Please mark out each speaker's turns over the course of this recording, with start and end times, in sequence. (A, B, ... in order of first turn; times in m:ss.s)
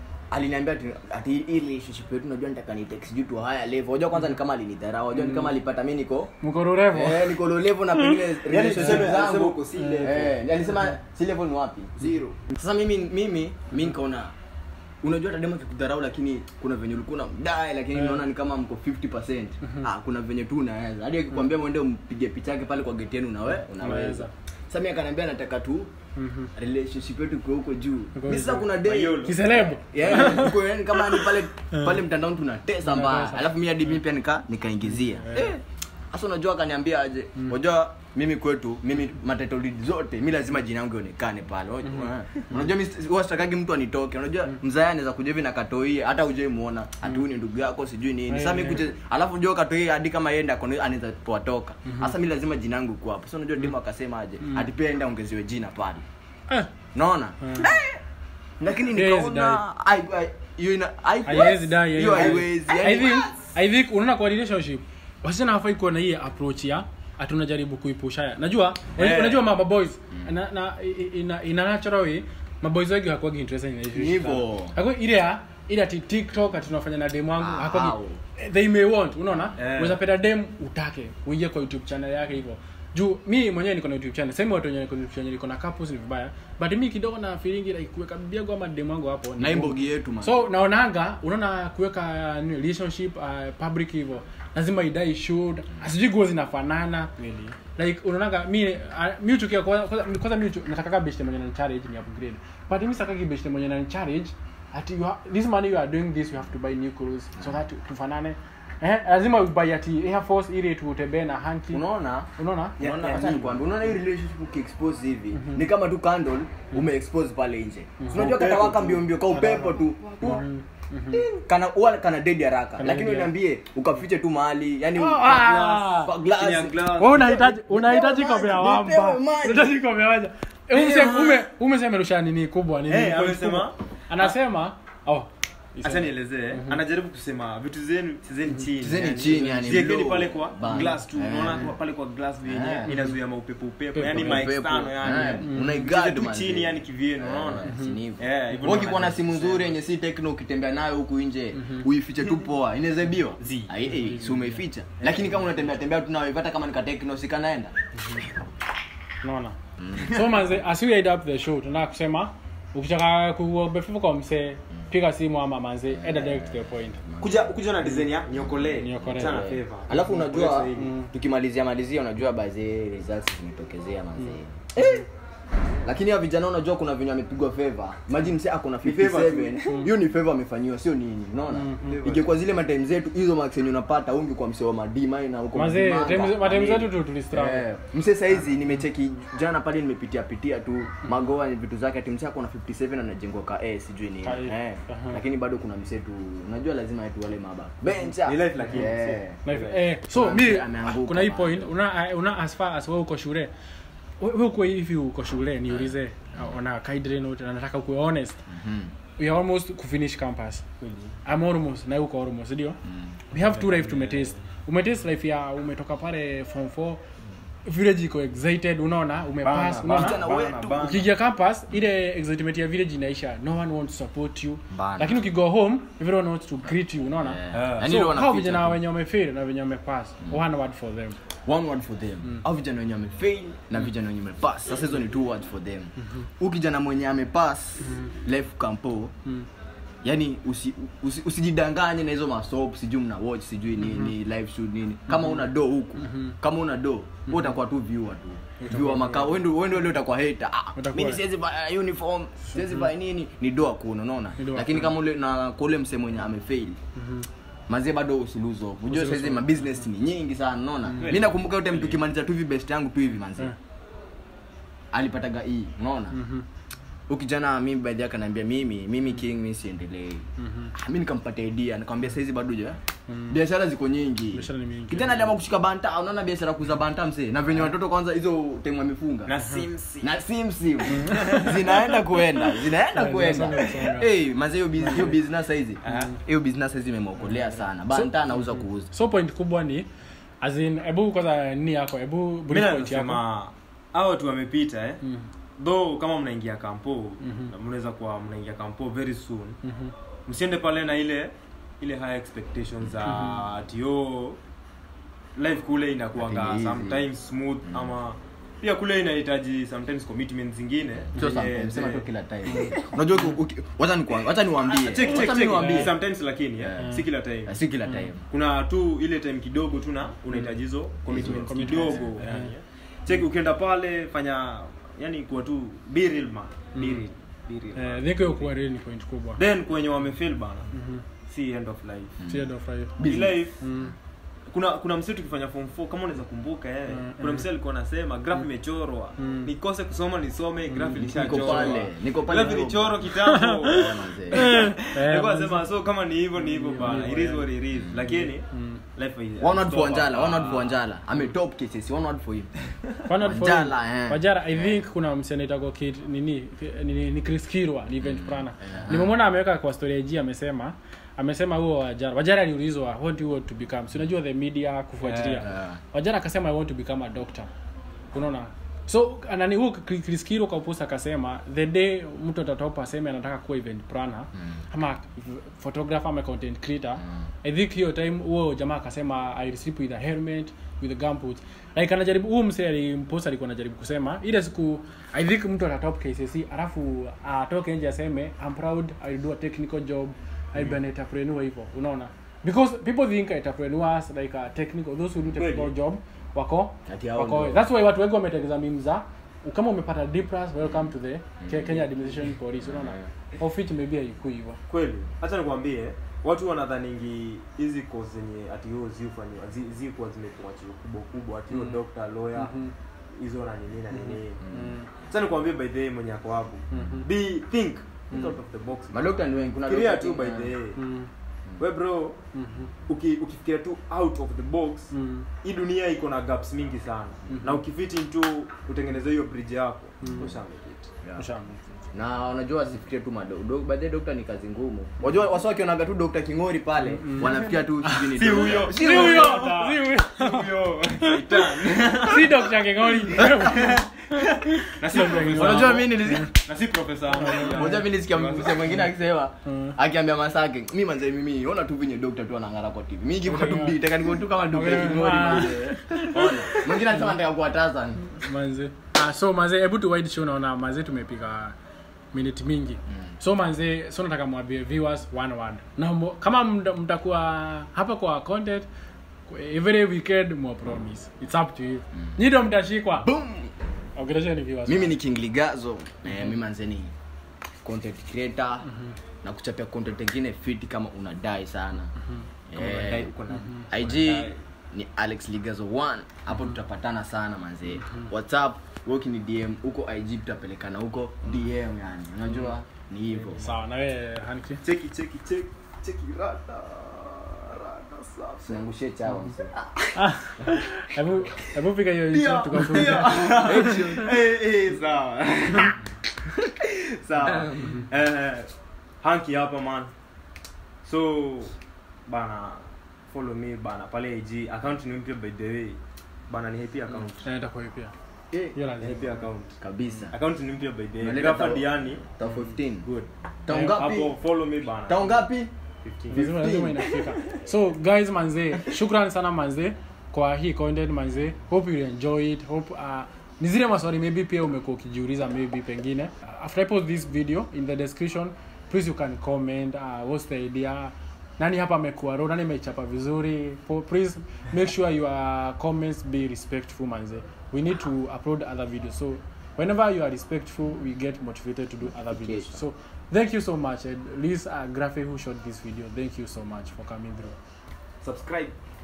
0:00.3-0:06.3 A
0:06.4-0:07.4 B
0:06.9-0:12.0 A
0:08.4-0:10.3 C
0:08.8-0:09.2 B
0:09.7-0:10.3 B
0:12.0-0:12.4 C
0:12.5-0:14.3 A
0:15.0-0:25.9 A
0:23.8-0:24.3 B
0:26.2-0:26.5 B
0:26.6-0:56.0 A
0:28.2-0:28.6 B
0:28.3-0:29.4 C
0:29.2-0:30.6 B
0:31.2-0:32.0 B
0:32.8-0:33.5 B
0:35.0-0:35.5 B
0:41.9-0:42.6 B
0:48.3-0:48.9 B
0:51.9-0:52.1 B
0:57.0-0:58.0 A
0:57.4-0:57.7 B
0:58.6-1:03.4 A
0:58.9-0:59.6 B
1:01.2-1:51.8 B
1:09.0-1:09.4 C
1:13.9-1:14.8 A
1:17.4-1:18.2 A
1:19.6-1:20.0 C
1:29.4-1:30.5 A
1:51.7-2:00.4 A
1:52.4-1:52.8 B
1:52.8-1:53.6 C
1:55.4-1:55.6 B
1:58.0-1:58.5 B
1:58.1-2:00.4 C
2:00.2-2:01.3 B
2:01.1-2:01.4 C
2:01.4-2:09.8 A
2:02.8-2:03.3 B
2:05.0-2:06.1 B
2:05.3-2:07.4 C
2:07.0-2:15.3 B
2:10.7-2:11.5 C
2:12.9-2:14.3 C
2:15.8-2:29.8 C
2:15.8-2:16.8 B
2:18.8-2:21.7 A
2:22.4-2:23.0 A
2:22.9-2:23.2 B
2:24.0-2:24.5 B
2:24.0-2:37.7 A
2:25.1-2:25.9 B
2:27.6-2:28.0 B
2:31.6-2:31.8 B
2:33.4-2:33.7 C
2:33.8-2:34.6 B
2:39.2-2:47.0 B
2:39.8-2:40.2 A
2:45.9-2:47.4 A
2:47.2-2:50.9 C
2:48.4-2:55.1 A
2:48.8-2:49.5 B
2:50.8-2:51.1 B
2:54.2-2:55.0 B
2:55.8-3:19.4 A
2:58.8-2:59.7 C
3:01.5-3:02.0 B
3:01.8-3:02.3 C
3:05.6-3:07.6 B
3:14.2-3:15.2 B
3:18.2-3:19.8 C
3:19.4-3:23.5 B
3:20.1-3:21.7 A
3:24.2-3:28.4 B
3:25.7-3:26.5 A
3:28.5-3:28.9 A
3:29.2-3:30.6 B
3:30.8-3:31.1 C
3:31.2-3:32.8 B
3:32.9-3:33.2 A
3:33.3-3:37.0 B
3:33.4-3:34.3 C
3:37.6-3:40.2 B
3:39.4-3:41.1 C
3:39.9-3:40.8 A
3:40.8-3:51.2 B
3:44.7-3:45.3 A
3:47.2-3:48.8 A
3:47.5-3:47.9 C
3:51.4-3:59.1 A
3:57.8-3:58.1 B
4:00.0-4:16.8 A
4:03.8-4:04.1 B
4:05.2-4:05.4 B
4:06.0-4:06.4 B
4:08.6-4:09.4 B
4:10.8-4:11.2 B
4:12.5-4:12.8 B
4:14.4-4:14.9 B
4:17.0-4:17.3 B
4:17.7-4:23.5 A
4:18.9-4:19.6 B
4:20.9-4:21.2 B
4:21.0-4:22.0 C
4:24.9-4:26.2 A
4:26.1-4:26.5 B
4:27.1-4:32.8 A
4:30.4-4:30.7 B
4:33.1-4:33.4 B
4:33.3-4:39.4 A
4:34.3-4:35.2 B
4:39.3-4:40.2 C
4:40.0-4:48.9 A
4:40.9-4:41.6 B
4:41.0-4:42.0 C
4:42.9-4:44.1 B
4:44.8-4:45.2 B
4:45.8-4:46.1 C
4:45.9-4:46.2 B
4:47.9-4:49.9 B
4:50.4-4:53.2 B
4:52.5-4:55.0 C
4:55.6-4:59.6 C
4:57.2-4:57.5 B
4:59.6-4:59.9 B
5:00.3-5:04.4 C
5:03.0-5:03.4 B
5:05.4-5:12.9 C
5:06.2-5:07.1 A
5:11.2-5:15.9 A
5:14.7-5:17.6 C
5:15.3-5:15.9 B
5:16.6-5:18.2 A
5:16.8-5:17.0 B
5:18.3-5:28.5 C
5:21.1-5:22.1 A
5:21.2-5:22.5 B
5:26.8-5:27.0 B
5:27.8-5:29.4 B
5:29.4-5:30.7 C
5:30.7-5:31.0 B
5:31.3-5:32.2 C
5:32.2-5:33.8 A
5:32.3-5:33.0 B
5:33.0-5:33.6 C
5:33.6-5:33.9 B
5:34.5-5:50.8 C
5:36.9-5:37.5 B
5:39.2-5:39.5 B
5:40.7-5:41.8 B
5:41.0-5:43.1 A
5:43.2-5:43.8 B
5:43.7-5:44.6 A
5:44.4-5:45.6 B
5:46.4-5:47.5 B
5:47.7-5:48.1 A
5:48.1-5:48.8 B
5:49.4-5:52.5 A
5:53.1-6:07.5 B
5:53.1-5:54.8 A
5:58.0-5:59.1 A
6:05.0-6:05.5 C
6:05.4-6:05.8 A
6:08.1-6:44.6 B
6:35.4-6:35.7 C
6:36.9-6:37.7 A
6:40.6-6:40.9 A
6:41.4-6:41.9 A
6:42.6-6:43.1 A
6:44.7-6:52.6 C
6:51.5-6:51.8 B
6:52.4-6:52.7 B
6:53.1-6:54.4 C
6:54.0-6:54.9 B
6:54.4-6:54.8 A
6:55.0-6:59.1 C
6:56.7-6:57.1 B
6:58.9-7:00.5 A
6:59.6-7:00.8 C
7:00.8-7:01.1 B
7:01.6-7:02.2 C
7:02.3-7:02.7 B
7:02.9-7:04.9 C
7:04.9-7:05.3 B
7:05.4-7:10.9 C
7:10.0-7:10.3 B
7:11.2-7:11.6 B
7:11.9-7:19.7 A
7:17.0-7:26.3 B
7:18.1-7:22.5 C
7:23.2-7:28.7 C
7:23.2-7:23.5 A
7:25.3-7:26.4 A
7:27.2-7:27.8 B
7:27.5-7:38.1 A
7:29.5-7:29.8 B
7:33.2-7:37.1 B
7:38.2-7:41.6 B
7:42.1-7:48.7 B
7:49.3-7:53.1 B
7:53.0-7:53.5 A
7:54.0-7:55.0 B
7:54.7-7:56.9 A
7:57.6-7:58.7 A
7:59.2-8:01.9 A
8:02.5-8:03.1 A
8:02.5-8:04.4 C
8:03.7-8:13.5 A
8:13.1-8:13.4 C
8:13.4-8:14.6 B
8:14.6-8:18.6 C
8:18.4-8:19.9 A
8:20.0-8:23.9 B
8:22.1-8:25.8 C
8:22.6-8:24.2 A
8:26.6-8:28.5 C
8:27.2-8:27.8 A
8:29.0-8:29.9 C
8:30.8-8:31.5 C
8:32.1-8:37.3 C
8:37.2-8:37.9 B
8:38.6-8:39.2 B
8:38.8-8:39.6 C
8:39.6-8:40.2 A
8:40.1-8:42.0 C
8:41.0-8:42.9 A
8:43.5-8:44.2 A
8:43.5-8:43.8 B
8:43.6-8:45.2 C
8:44.9-8:45.5 A
8:45.8-8:46.3 C
8:46.1-9:17.4 B
8:46.1-8:46.9 A
9:12.0-9:12.6 A
9:18.0-9:18.6 C